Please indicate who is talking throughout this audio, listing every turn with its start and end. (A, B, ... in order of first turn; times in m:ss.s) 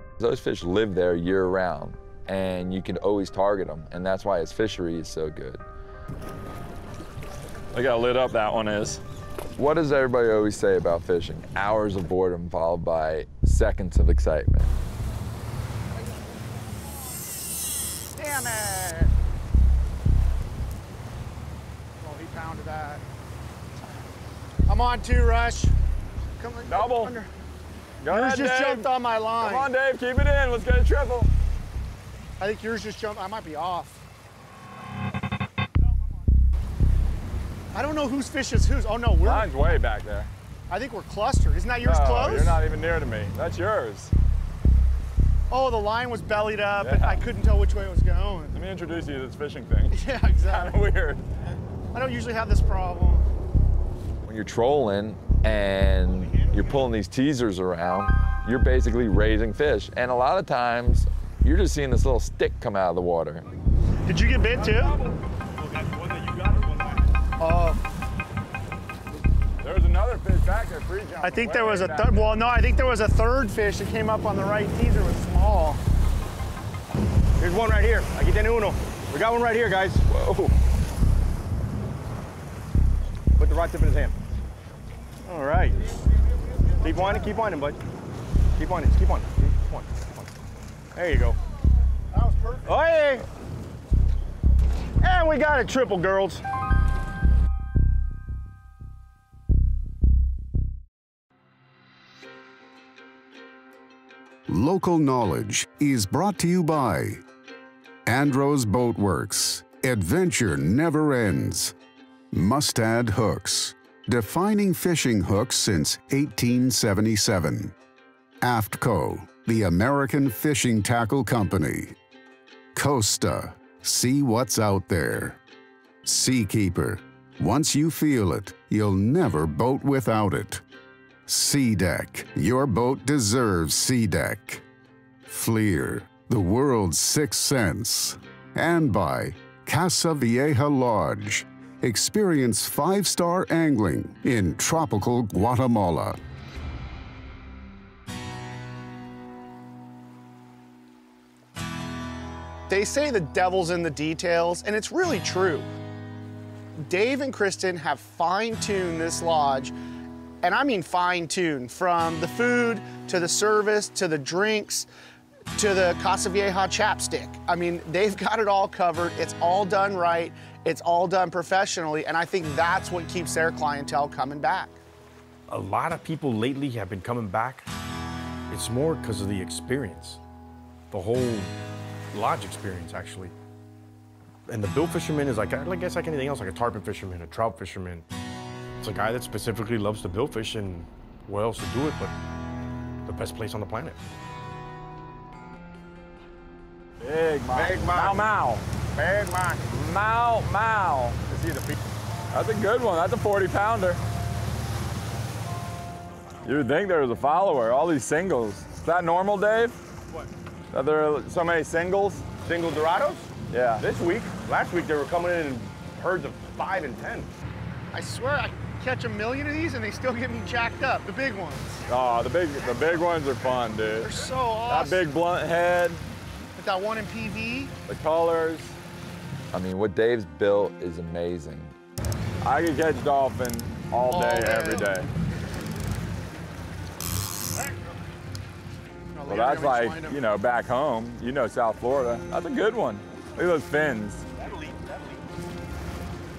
0:00.2-0:05.6 A
0:07.7-0:09.0 B
0:09.6-0:14.7 A
0:18.2-0:19.1 C
0:22.0-0:23.0 C
0:24.7-0:25.7 C
0:26.4-0:27.3 C
0:26.7-0:27.1 B
0:28.0-0:31.3 B
0:28.1-0:29.7 C
0:32.4-0:34.0 C
0:37.7-0:39.5 C
0:39.2-0:40.3 B
0:40.7-0:42.6 C
0:41.8-0:44.1 B
0:45.5-0:48.6 C
0:46.8-0:47.2 B
0:48.5-0:51.2 B
0:49.9-0:50.8 C
0:51.9-0:53.2 C
0:54.2-1:03.4 A
1:04.0-1:04.9 C
1:05.5-1:07.1 D
1:07.4-1:07.8 C
1:09.6-1:12.4 B
1:11.2-1:15.8 C
1:17.4-1:20.0 D
1:20.1-1:20.5 B
1:23.4-1:24.2 D
1:25.2-1:25.8 D
1:26.8-1:27.8 D
1:28.5-1:30.3 D
1:30.9-1:31.4 D
1:32.2-1:32.6 C
1:32.6-1:33.2 D
1:35.0-1:36.4 D
1:44.5-1:47.2 E
1:48.0-1:51.7 E
1:52.3-1:57.7 E
1:58.4-2:02.0 E
2:02.7-2:05.4 E
2:06.0-2:10.6 E
2:11.3-2:14.6 E
2:15.3-2:26.2 E
2:32.7-2:35.7 C
2:36.8-2:39.7 C
2:40.4-2:44.9 C
2:45.5-2:54.8 C
2:55.5-2:57.7 D
2:58.5-3:00.2 D
3:00.9-3:01.5 D
3:02.1-3:03.3 D
3:04.5-3:08.0 D
3:08.8-3:12.1 D
3:13.0-3:14.0 D
3:17.0-3:18.6 B
3:17.5-3:18.3 D
3:18.9-3:19.7 D
3:19.7-3:21.3 B
3:21.3-3:21.8 D
3:22.3-3:24.0 B
3:26.4-3:29.8 B
3:30.7-3:32.2 B
3:32.4-3:37.3 D
3:33.5-3:33.9 B
3:37.9-3:41.8 C
3:41.9-3:44.2 B
3:44.0-3:45.0 C
3:44.7-3:46.0 B
3:46.6-3:47.7 C
3:47.9-3:48.8 B
3:49.5-3:51.8 A
3:52.4-3:55.1 B
3:54.1-3:54.9 C
3:59.1-4:00.2 C
3:59.3-4:04.2 B
4:04.4-4:05.2 D